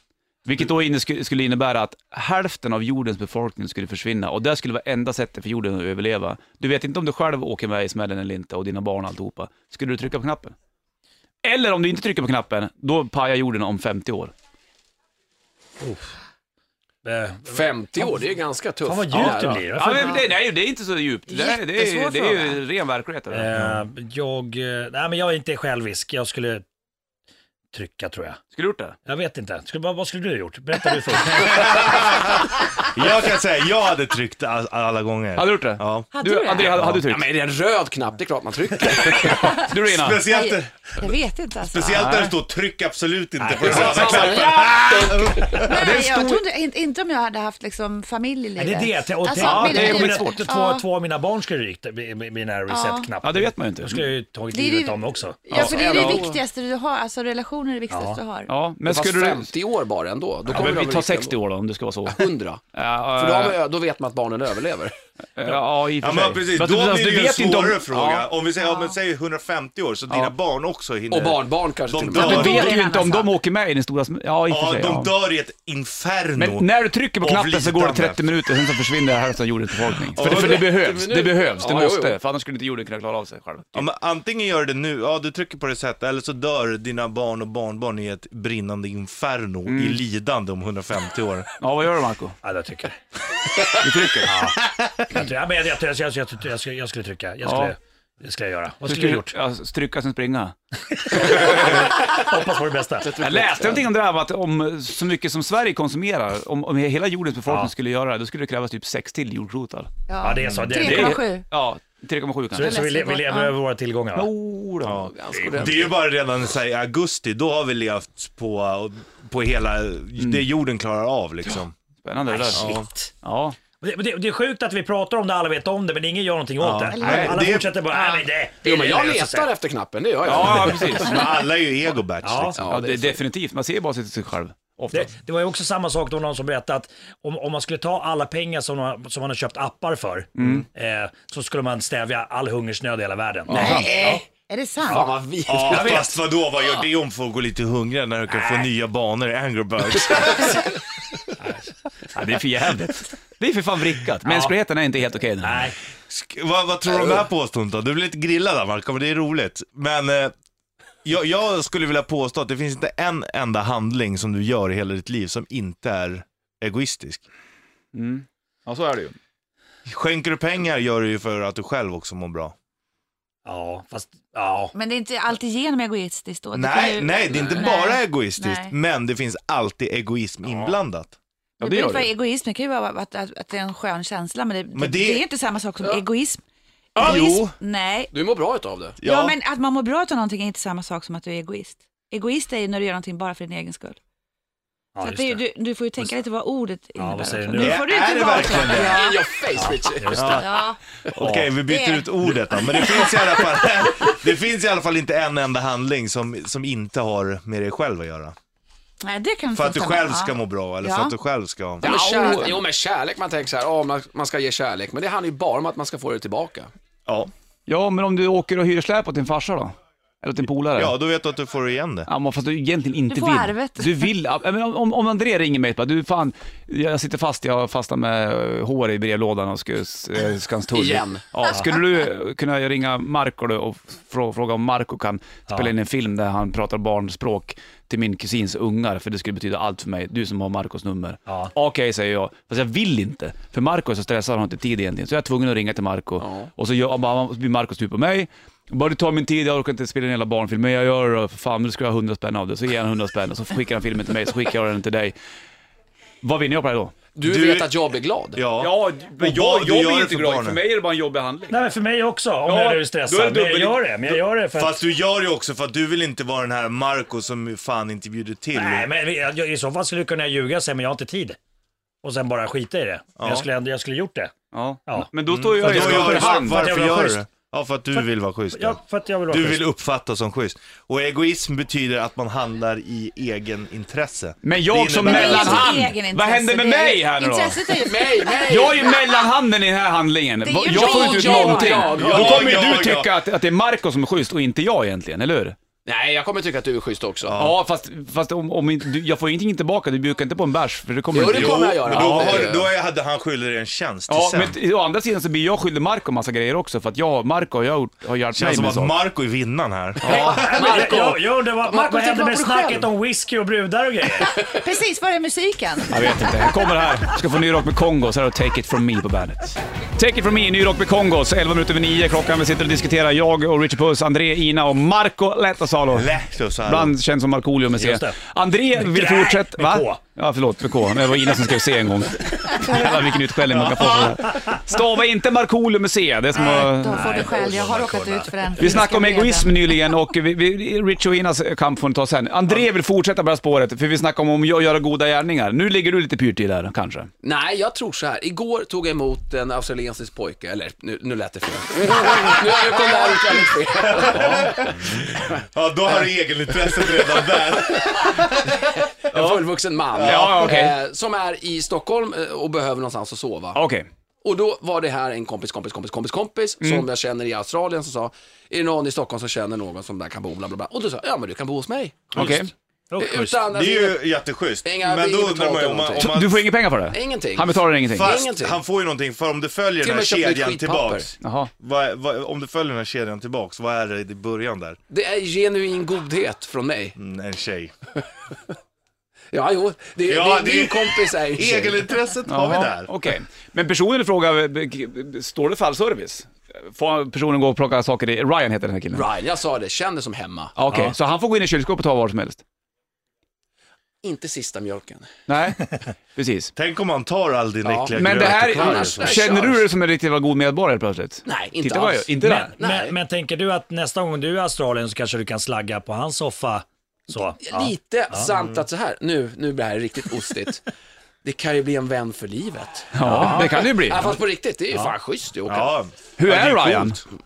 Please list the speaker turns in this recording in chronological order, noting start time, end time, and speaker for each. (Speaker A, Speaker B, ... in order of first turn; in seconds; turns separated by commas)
Speaker A: 0.5-10.6, Speaker A: 11.4-14.3, Speaker B: 15.8-16.1, Speaker B: 17.1-18.2, Speaker C: 17.5-19.7, Speaker B: 18.8-20.2, Speaker A: 19.2-23.7, Speaker D: 19.9-20.2, Speaker D: 21.3-22.6, Speaker B: 23.3-26.6, Speaker B: 27.7-28.4, Speaker A: 28.5-29.0, Speaker B: 29.1-32.2, Speaker E: 31.5-36.1, Speaker A: 35.4-37.3, Speaker D: 36.1-36.8, Speaker E: 36.7-37.0, Speaker C: 37.0-39.5, Speaker E: 38.9-41.1, Speaker D: 39.4-42.1, Speaker A: 39.6-40.2, Speaker E: 41.7-45.8, Speaker A: 42.0-42.3, Speaker B: 43.4-44.6, Speaker C: 43.6-45.6, Speaker D: 45.6-50.9, Speaker A: 45.6-46.4, Speaker B: 48.6-55.6, Speaker A: 49.4-50.5, Speaker D: 52.7-53.1, Speaker A: 53.2-54.1, Speaker D: 54.5-58.5, Speaker A: 55.5-56.3, Speaker C: 55.5-56.4, Speaker B: 57.9-58.2, Speaker A: 58.5-59.5, Speaker C: 58.9-61.4, Speaker A: 60.5-63.6, Speaker C: 62.1-62.6, Speaker C: 63.1-64.9, Speaker A: 65.4-68.3, Speaker E: 66.0-72.7, Speaker D: 68.6-69.0, Speaker C: 71.1-72.7, Speaker D: 72.1-73.3, Speaker A: 72.2-75.1, Speaker E: 74.5-78.2, Speaker A: 76.4-83.9, Speaker E: 80.2-80.7, Speaker C: 80.2-82.2, Speaker E: 83.8-91.5, Speaker A: 89.7-90.0, Speaker A: 91.6-92.4, Speaker B: 92.4-93.0, Speaker A: 93.7-94.4, Speaker B: 94.2-99.3, Speaker A: 97.4-97.7, Speaker A: 98.8-100.6, Speaker B: 100.9-103.2, Speaker A: 101.1-101.9, Speaker C: 103.0-103.9, Speaker A: 103.2-109.9, Speaker D: 110.1-111.5, Speaker B: 110.2-111.2, Speaker A: 110.7-112.8, Speaker B: 112.5-114.3, Speaker D: 112.6-113.6, Speaker A: 114.2-115.1, Speaker E: 114.8-121.7, Speaker C: 115.1-116.0, Speaker A: 120.2-120.5, Speaker A: 122.0-123.6, Speaker B: 122.3-123.1, Speaker E: 122.5-122.9, Speaker B: 123.8-129.5, Speaker E: 126.6-127.8, Speaker D: 126.9-128.2, Speaker A: 127.0-127.3, Speaker C: 128.6-131.0, Speaker A: 130.2-131.2, Speaker E: 131.0-132.6, Speaker B: 132.2-132.6, Speaker C: 132.6-133.2, Speaker A: 132.7-135.1, Speaker B: 134.9-144.2, Speaker A: 140.4-140.7, Speaker A: 143.5-143.9, Speaker D: 143.5-145.1, Speaker C: 143.6-144.2, Speaker C: 144.9-146.1, Speaker E: 145.5-150.8, Speaker B: 145.7-146.1, Speaker B: 148.3-148.7, Speaker B: 151.4-152.8, Speaker A: 152.2-155.7, Speaker B: 154.2-154.5, Speaker B: 155.4-155.8, Speaker E: 156.1-160.3, Speaker E: 161.0-167.2, Speaker A: 167.9-169.2, Speaker E: 169.9-172.6, Speaker B: 173.4-174.7, Speaker D: 174.7-178.7, Speaker E: 176.5-181.2, Speaker C: 177.3-177.7, Speaker A: 181.6-182.1, Speaker D: 181.6-186.4, Speaker E: 184.8-185.3, Speaker C: 187.0-187.5, Speaker D: 187.0-188.1, Speaker E: 187.0-187.5, Speaker C: 188.1-189.0, Speaker E: 189.0-189.4, Speaker D: 189.0-194.0, Speaker B: 194.9-195.4, Speaker D: 195.0-199.3, Speaker B: 197.0-197.9, Speaker E: 197.6-199.1, Speaker C: 198.8-200.4, Speaker B: 199.6-200.5, Speaker E: 200.2-200.5, Speaker D: 200.2-200.8, Speaker E: 201.1-208.4, Speaker B: 201.2-201.5, Speaker D: 201.6-203.7, Speaker D: 209.0-211.2, Speaker E: 209.5-211.8, Speaker C: 211.8-216.7, Speaker A: 211.8-212.6, Speaker A: 217.7-220.9, Speaker E: 220.8-222.1, Speaker A: 222.1-255.2, Speaker D: 223.1-224.1, Speaker C: 230.7-231.4, Speaker C: 246.2-246.5, Speaker A: 256.2-256.9, Speaker C: 257.1-258.4, Speaker E: 257.2-257.7, Speaker E: 258.4-260.6, Speaker A: 258.6-261.6, Speaker B: 261.5-264.9, Speaker A: 262.5-263.9, Speaker E: 264.5-268.9, Speaker B: 268.5-271.4, Speaker B: 272.0-274.3, Speaker E: 273.2-273.4, Speaker A: 274.5-276.8, Speaker B: 274.9-277.2, Speaker E: 275.3-285.8, Speaker B: 278.5-279.7, Speaker A: 284.4-287.7, Speaker D: 285.0-289.2, Speaker C: 287.7-289.1, Speaker A: 288.5-295.6, Speaker D: 290.4-292.1, Speaker C: 290.6-292.5, Speaker E: 292.0-293.1, Speaker C: 295.9-297.4, Speaker E: 297.2-297.6, Speaker A: 297.4-302.6, Speaker C: 301.1-302.7, Speaker E: 301.3-304.6, Speaker A: 304.1-309.0, Speaker E: 308.3-310.6, Speaker A: 310.0-310.4, Speaker B: 310.1-314.3, Speaker C: 310.4-312.9, Speaker D: 314.5-316.2, Speaker A: 315.9-337.3, Speaker E: 325.9-326.9, Speaker B: 327.8-328.2, Speaker B: 328.7-330.0, Speaker D: 332.5-333.2, Speaker E: 333.5-334.2, Speaker D: 336.3-340.1, Speaker B: 336.9-338.9, Speaker A: 338.6-347.1, Speaker C: 347.2-355.4, Speaker E: 353.8-360.5, Speaker C: 356.9-363.6, Speaker A: 360.0-360.8, Speaker A: 363.6-363.9, Speaker C: 364.2-372.4, Speaker A: 366.6-366.9, Speaker A: 372.1-372.5, Speaker B: 372.1-373.5, Speaker C: 373.0-374.1, Speaker E: 373.5-376.4, Speaker C: 374.6-376.1, Speaker A: 376.0-378.2, Speaker C: 376.9-378.6, Speaker E: 377.9-384.8, Speaker C: 379.8-381.2, Speaker A: 381.2-381.5, Speaker C: 384.9-386.9, Speaker E: 387.0-387.7, Speaker C: 389.3-391.9, Speaker E: 390.1-392.9, Speaker A: 392.3-399.1, Speaker C: 398.9-400.6, Speaker A: 400.6-402.4, Speaker B: 400.7-400.9, Speaker C: 404.0-405.1, Speaker A: 405.3-406.5, Speaker E: 406.6-409.2, Speaker C: 407.6-409.6, Speaker A: 408.0-412.5, Speaker C: 411.3-413.0, Speaker B: 412.2-418.3, Speaker C: 417.3-420.6, Speaker C: 421.2-425.8, Speaker A: 422.9-424.2, Speaker B: 423.0-423.5, Speaker E: 425.5-427.0, Speaker A: 426.2-427.0